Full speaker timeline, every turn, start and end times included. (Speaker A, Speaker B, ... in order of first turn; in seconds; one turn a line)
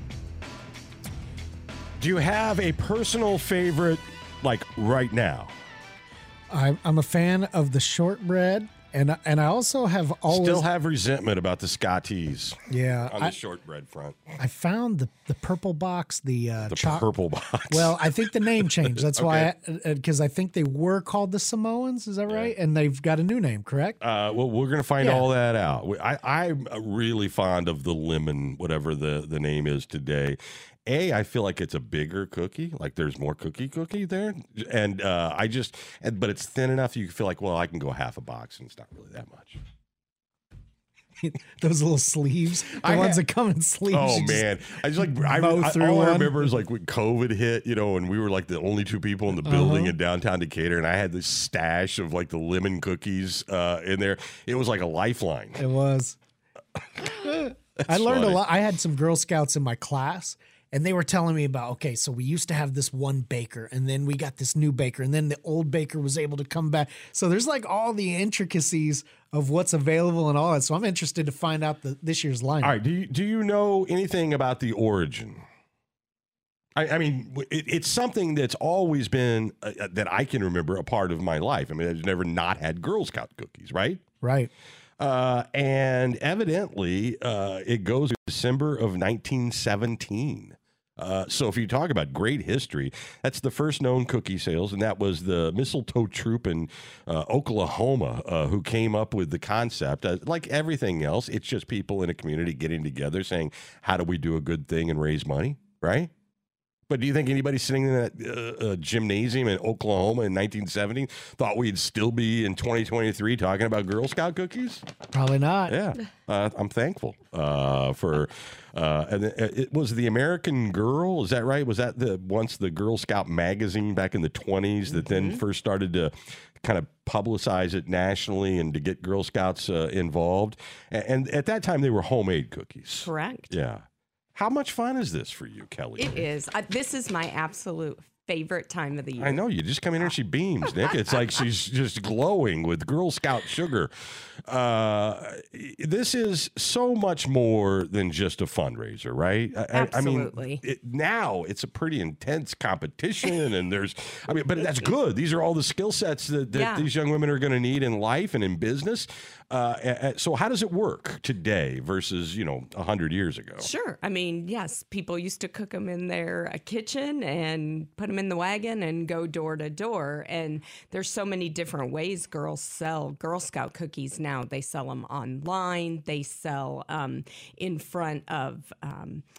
Speaker A: 2.0-5.5
Speaker B: 6.5-10.6
Speaker A: 10.3-14.2
Speaker B: 12.7-13.4
Speaker B: 14.4-17.1
Speaker A: 16.6-19.5
Speaker B: 17.7-24.0
Speaker A: 22.3-22.5
Speaker A: 24.0-39.6
Speaker B: 25.0-25.3
Speaker B: 41.2-46.5
Speaker A: 42.7-43.2
Speaker A: 43.9-55.6
Speaker B: 49.4-50.0
Speaker B: 55.6-56.1
Speaker A: 57.0-58.4
Speaker B: 57.2-72.8
Speaker A: 72.6-75.4
Speaker A: 76.8-84.0
Speaker B: 84.2-84.5
Speaker A: 85.0-106.1
Speaker A: 106.9-114.8
Speaker B: 115.1-115.8
Speaker A: 115.7-133.8
Speaker C: 124.9-125.4
Speaker C: 133.0-133.5
Speaker A: 134.3-136.2
Speaker C: 136.0-139.4
Speaker A: 139.2-143.9
Speaker C: 140.7-141.2
Speaker A: 144.5-163.7
Speaker C: 149.7-150.6
Speaker C: 154.6-154.9
Speaker C: 156.5-156.9
Speaker C: 163.6-179.2